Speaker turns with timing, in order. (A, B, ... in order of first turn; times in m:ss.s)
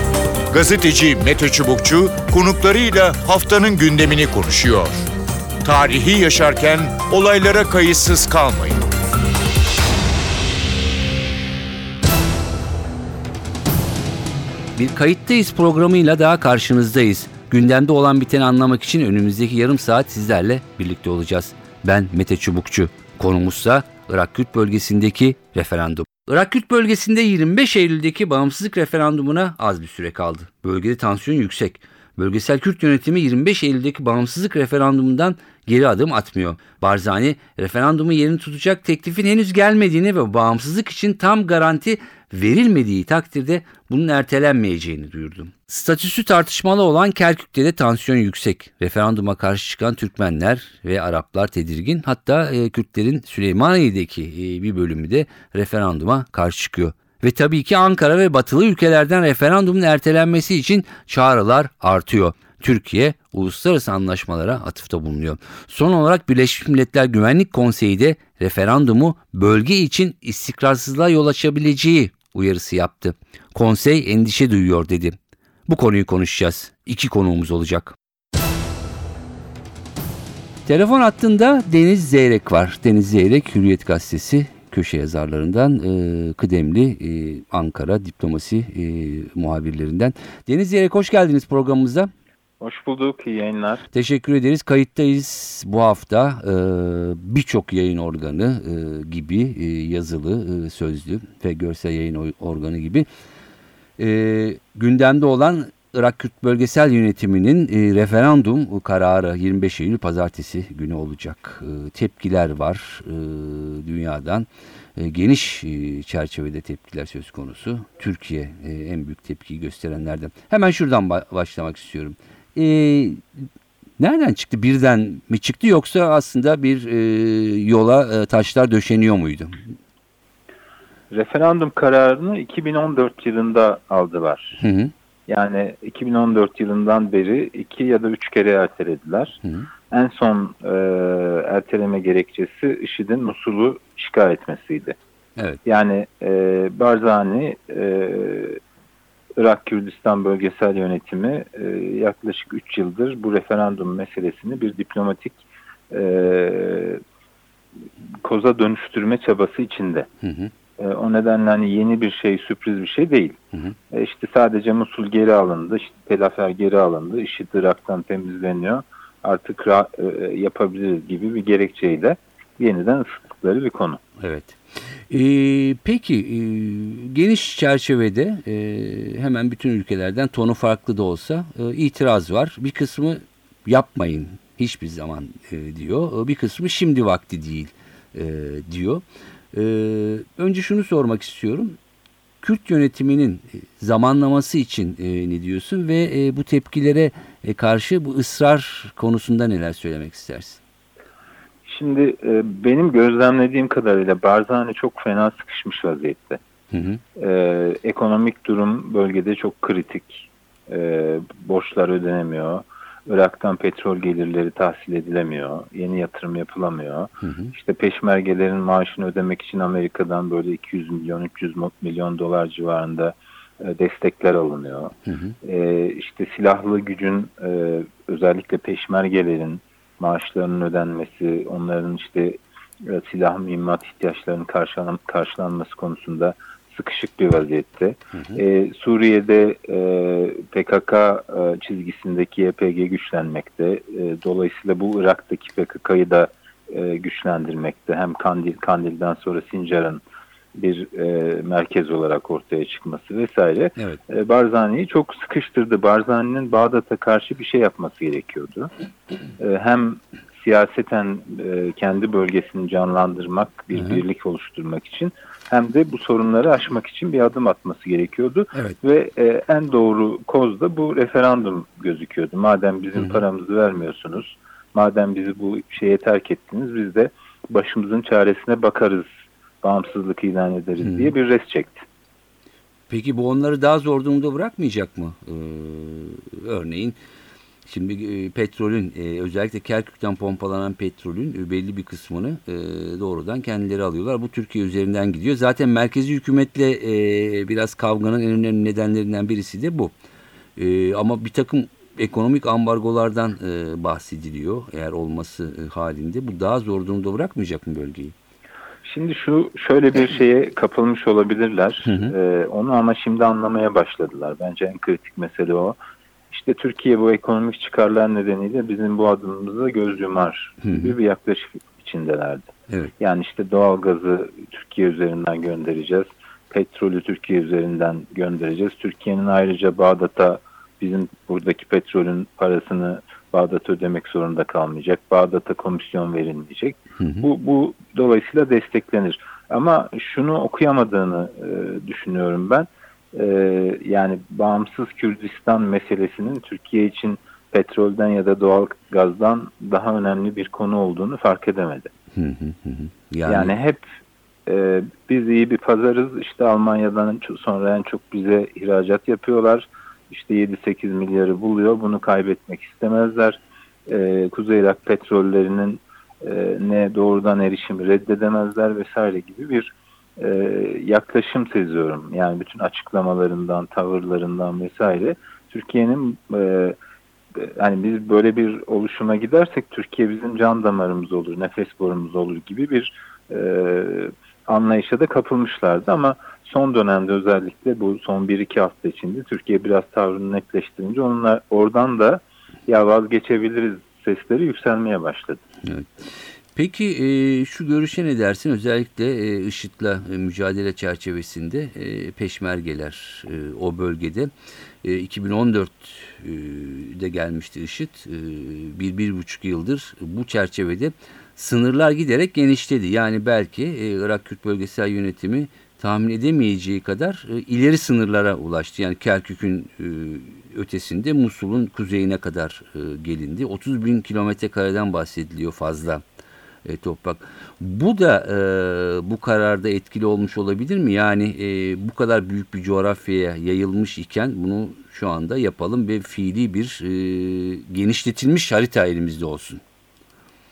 0:00.5-0:05.0 A
0:05.6-0:08.8 A
0:14.7-1:18.0 B
1:20.6-1:32.1 B
1:32.6-1:33.8 C
1:33.9-1:43.0 B
1:44.0-2:03.4 B
2:04.0-2:09.6 B
2:11.1-2:14.6 C
2:14.6-2:14.9 B
2:15.3-2:19.4 C
2:19.9-2:25.0 C
2:25.6-2:28.6 C
2:29.4-2:37.0 C
2:38.2-2:40.1 C
2:40.2-2:40.5 B
2:40.8-2:43.4 C
2:43.9-2:54.0 C
2:54.2-3:11.8 B
3:12.4-3:20.6 B
3:21.6-3:26.4 C
3:26.7-3:27.0 B
3:27.2-4:10.0 C
3:37.2-3:37.5 B
3:45.1-3:45.4 B
3:58.1-3:58.4 B
4:10.5-4:18.7 C
4:19.4-4:39.1 C
4:23.7-4:24.0 B
4:33.0-4:33.2 B
4:39.6-4:41.8 C
4:40.8-4:41.1 B
4:42.9-4:47.0 B
4:47.6-4:59.9 B
5:00.6-5:08.1 B
5:08.8-5:15.8 C
5:11.8-5:12.1 B
5:16.3-5:51.9 C
5:20.6-5:20.9 B
5:37.0-5:37.2 B
5:52.1-5:53.5 B
5:53.2-5:53.8 C
5:54.4-6:16.8 C
6:17.4-6:35.4 C
6:35.6-6:36.0 B
6:36.5-6:44.3 B
6:44.8-7:06.0 B
7:06.6-7:19.6 B